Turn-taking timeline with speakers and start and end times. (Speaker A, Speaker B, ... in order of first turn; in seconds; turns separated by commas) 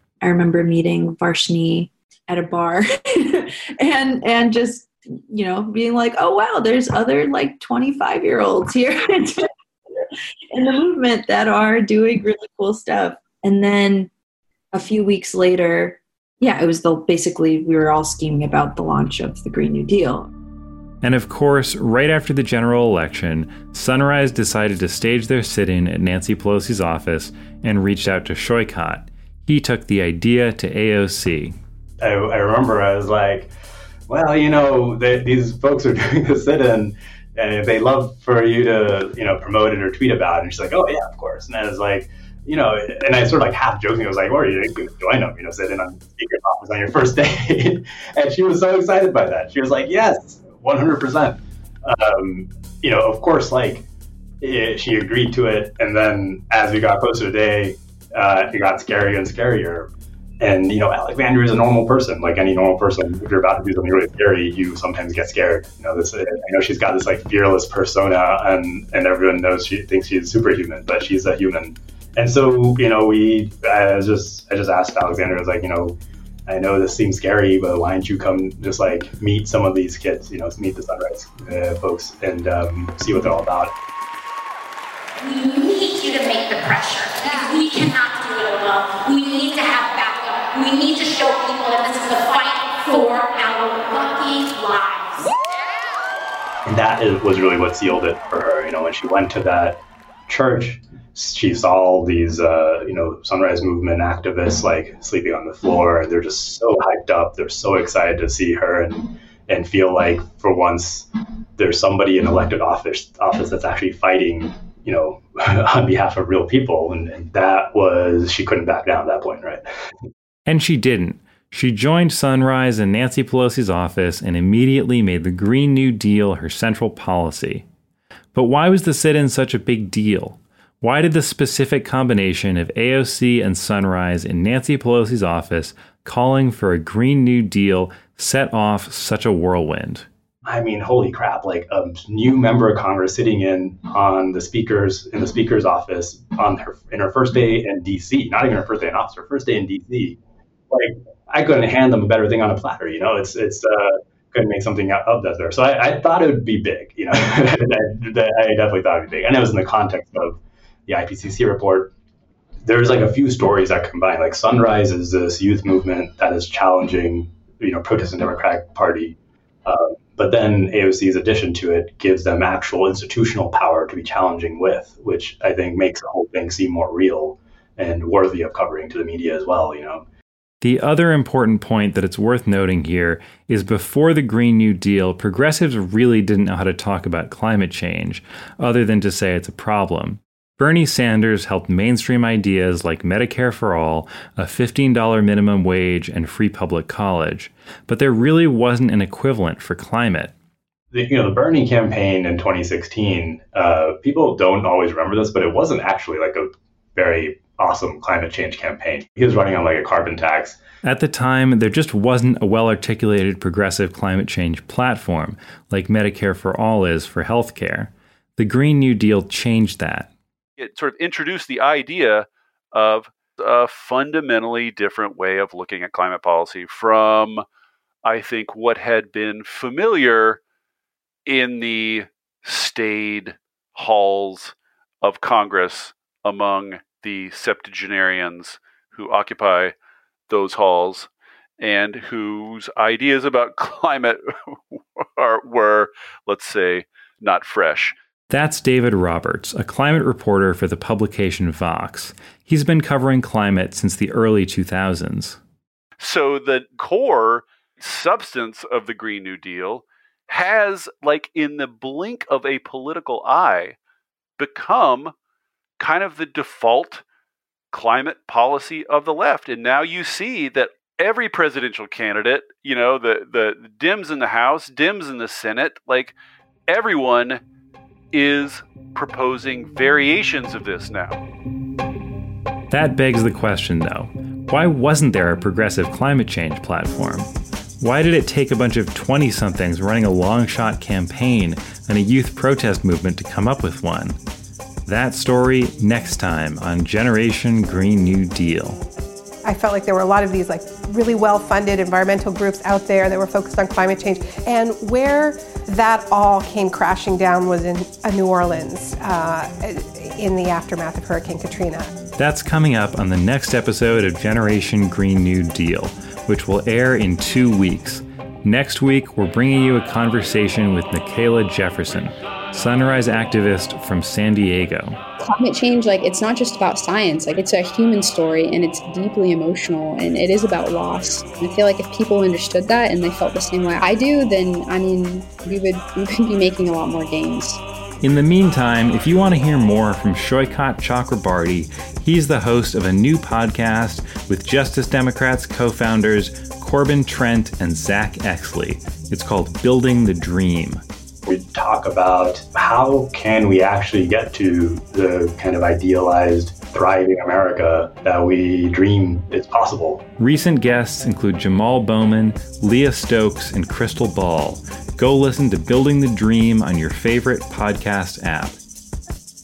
Speaker A: 0.2-9.5, Speaker A: 10.5-14.1, Speaker A: 14.7-20.3, Speaker B: 21.0-31.6, Speaker C: 32.0-33.5, Speaker C: 34.1-53.9, Speaker C: 54.4-83.7, Speaker D: 85.2-95.3, Speaker C: 96.7-111.1, Speaker C: 111.6-119.6, Speaker B: 120.5-127.7, Speaker B: 128.3-140.1, Speaker C: 140.4-150.2, Speaker C: 150.7-161.9, Speaker C: 162.6-180.1, Speaker B: 180.6-200.3, Speaker C: 200.9-210.6, Speaker B: 210.8-220.1, Speaker E: 220.6-227.4, Speaker E: 228.1-230.4, Speaker E: 231.3-239.8, Speaker E: 240.3-247.9, Speaker B: 248.3-255.4, Speaker E: 256.0-263.8, Speaker E: 264.4-265.1, Speaker E: 265.8-267.0, Speaker E: 267.7-276.1, Speaker E: 276.7-277.4, Speaker E: 278.1-281.2, Speaker B: 282.7-294.2, Speaker B: 294.9-298.8, Speaker F: 299.4-311.9, Speaker B: 312.2-325.0, Speaker G: 325.2-337.6, Speaker B: 338.0-350.8, Speaker C: 351.3-360.1, Speaker B: 360.2-368.6